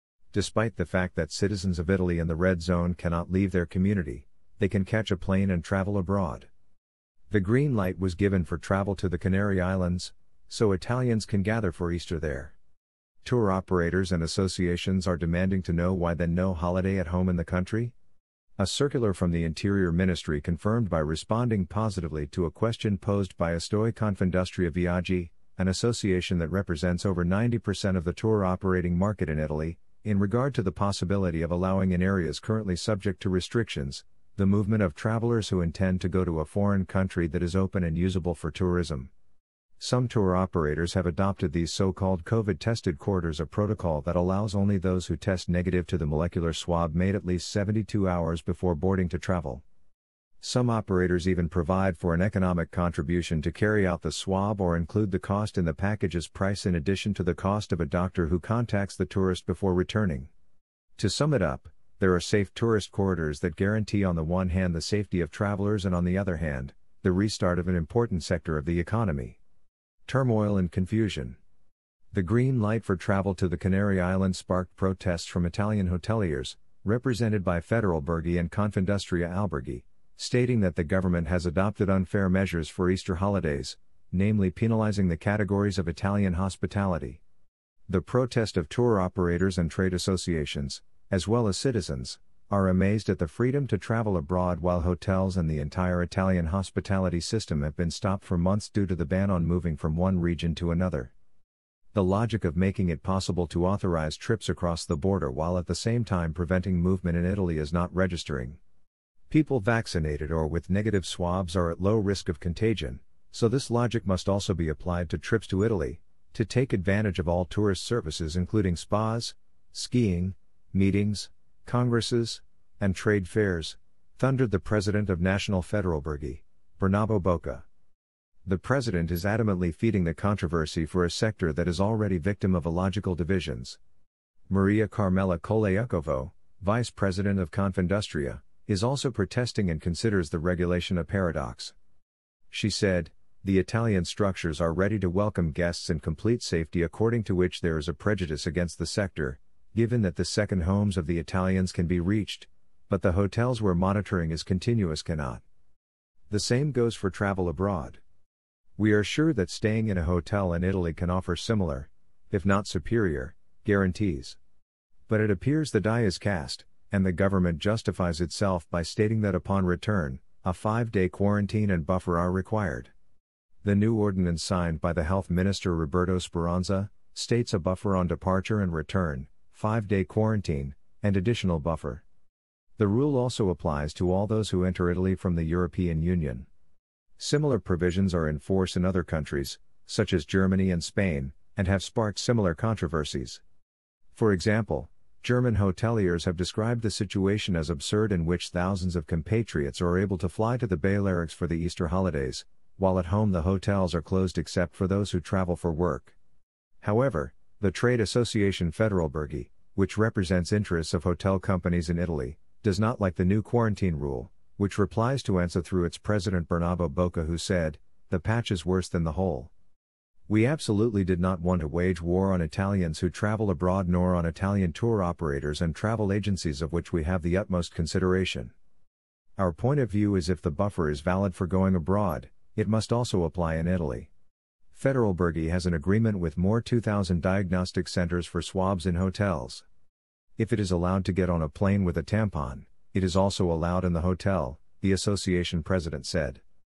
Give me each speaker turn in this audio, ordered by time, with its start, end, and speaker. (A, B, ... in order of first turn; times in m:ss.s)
0:00.3-0:06.5 A
0:07.3-0:12.6 A
0:13.2-0:17.9 A
0:18.6-0:39.1 A
0:39.8-0:49.6 A
0:50.4-1:00.3 A
1:01.0-1:09.4 A
1:10.1-1:11.4 A
1:12.1-1:27.2 A
1:27.9-1:41.1 A
1:41.9-1:48.6 A
1:49.3-2:07.6 A
2:08.4-2:13.8 A
2:14.5-2:21.7 A
2:22.5-2:35.4 A
2:36.3-2:38.0 A
2:38.8-2:44.4 A
2:45.1-2:52.9 A
2:53.6-3:02.0 A
3:02.8-3:06.5 A
3:07.2-3:13.4 A
3:14.1-3:26.2 A
3:26.8-3:39.5 A
3:40.3-3:48.5 A
3:49.4-3:54.1 A
3:54.7-3:59.6 A
4:00.4-4:06.4 A